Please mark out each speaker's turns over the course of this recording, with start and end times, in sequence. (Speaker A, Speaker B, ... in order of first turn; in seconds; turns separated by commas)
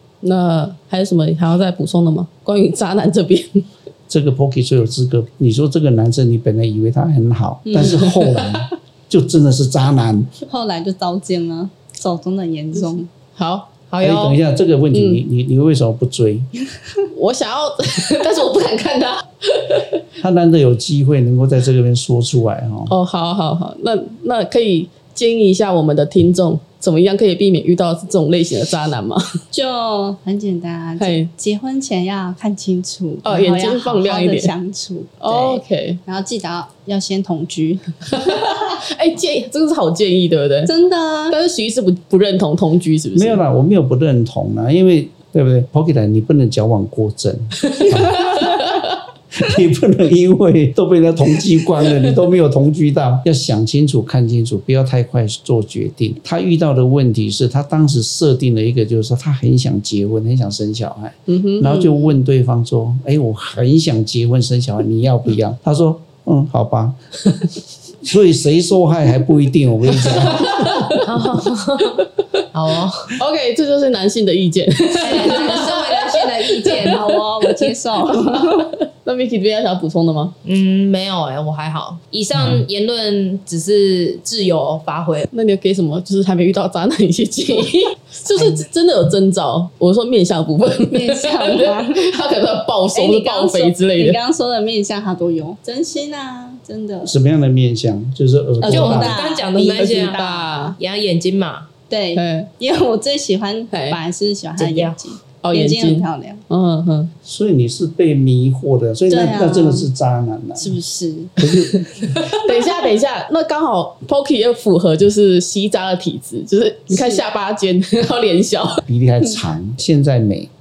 Speaker A: 0.2-3.6, Speaker B: 4.1-10.3, Speaker A: 7.7-8.6, Speaker C: 10.4-13.1, Speaker A: 13.3-13.7, Speaker D: 13.9-14.4, Speaker B: 14.0-16.5, Speaker A: 14.9-15.2, Speaker A: 17.1-19.8, Speaker B: 20.2-22.9, Speaker A: 22.9-29.4, Speaker C: 29.5-37.9, Speaker A: 31.0-31.3, Speaker A: 33.2-34.5, Speaker A: 35.2-36.0, Speaker A: 38.1-40.7, Speaker C: 40.6-41.3, Speaker A: 41.3-43.4, Speaker B: 43.1-48.8, Speaker B: 49.3-67.2, Speaker A: 61.3-62.0, Speaker B: 68.0-70.8, Speaker A: 69.9-71.1, Speaker D: 71.0-73.2, Speaker A: 73.2-80.3, Speaker D: 75.0-77.1, Speaker C: 75.1-75.7, Speaker C: 76.8-78.7, Speaker D: 80.4-85.3, Speaker B: 82.3-82.7, Speaker A: 85.3-94.2, Speaker C: 90.9-92.2, Speaker C: 92.9-97.1, Speaker B: 97.0-99.2, Speaker C: 98.6-100.7, Speaker D: 98.6-100.2, Speaker A: 99.6-100.8, Speaker D: 100.8-101.7, Speaker C: 101.9-106.4, Speaker A: 102.1-102.5, Speaker A: 103.7-104.0, Speaker D: 104.6-105.1, Speaker A: 105.4-107.1, Speaker B: 107.2-110.8, Speaker C: 109.1-109.9, Speaker C: 110.6-111.4, Speaker B: 111.4-112.1, Speaker A: 112.3-118.8, Speaker B: 118.8-120.5